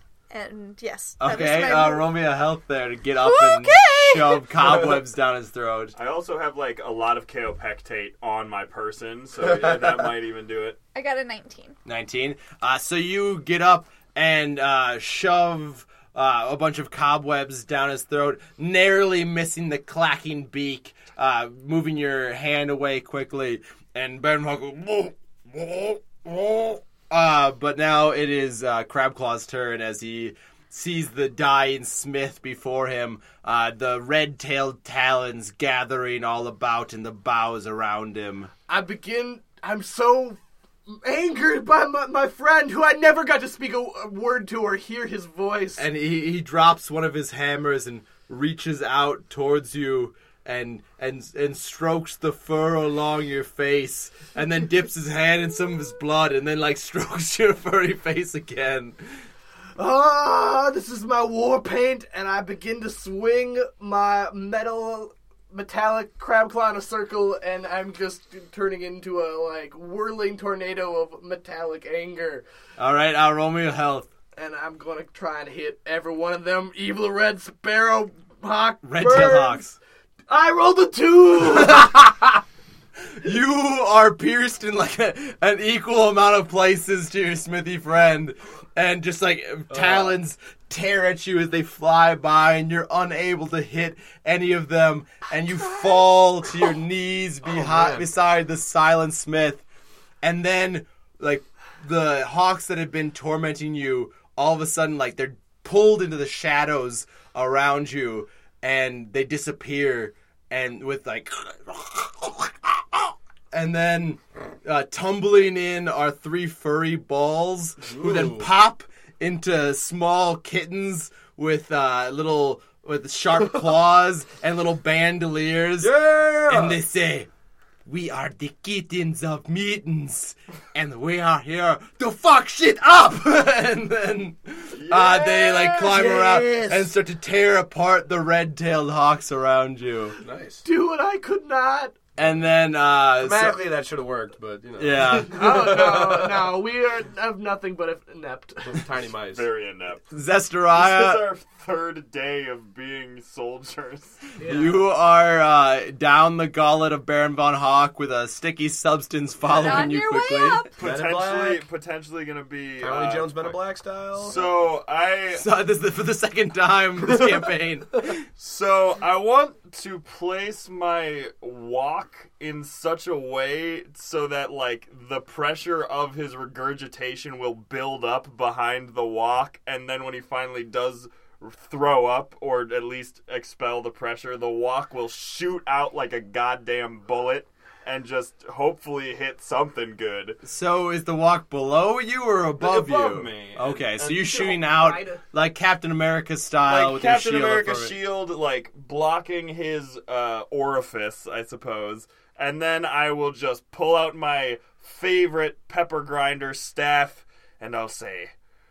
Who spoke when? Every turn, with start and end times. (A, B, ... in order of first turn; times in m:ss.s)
0:00.3-0:02.1 A
0:01.2-0:05.9 B
0:03.2-0:04.8 A
0:05.9-0:10.8 C
0:10.9-0:11.8 A
0:11.8-0:38.5 B
0:38.7-0:45.8 D
0:45.8-0:59.0 B
0:59.8-1:12.4 D
1:12.8-1:14.1 B
1:14.4-1:19.6 D
1:18.8-1:19.8 B
1:20.3-1:22.2 D
1:23.1-1:39.6 B
1:29.7-1:30.2 E
1:37.4-1:38.1 E
1:40.2-2:07.3 B
1:57.8-1:58.5 E
2:05.8-2:06.8 E
2:07.8-2:20.2 B
2:14.7-2:15.7 C
2:15.3-2:16.9 E
2:20.2-2:20.6 E
2:20.6-2:22.0 D
2:22.2-2:23.6 B
2:23.2-2:26.5 E
2:24.8-2:25.6 B
2:25.2-2:28.8 D
2:28.6-2:29.5 E
2:29.3-2:30.0 C
2:30.1-2:31.2 B
2:30.7-2:34.3 C
2:34.4-2:34.8 D
2:34.4-2:40.6 B
2:39.5-2:40.7 A
2:40.7-2:43.6 C
2:40.8-2:41.6 E
2:42.8-2:44.4 E
2:44.2-2:45.5 C
2:45.3-2:48.3 B
2:48.4-3:10.4 C
3:10.4-3:17.9 B
3:12.6-3:14.3 C
3:14.2-3:15.2 D
3:16.6-3:28.3 C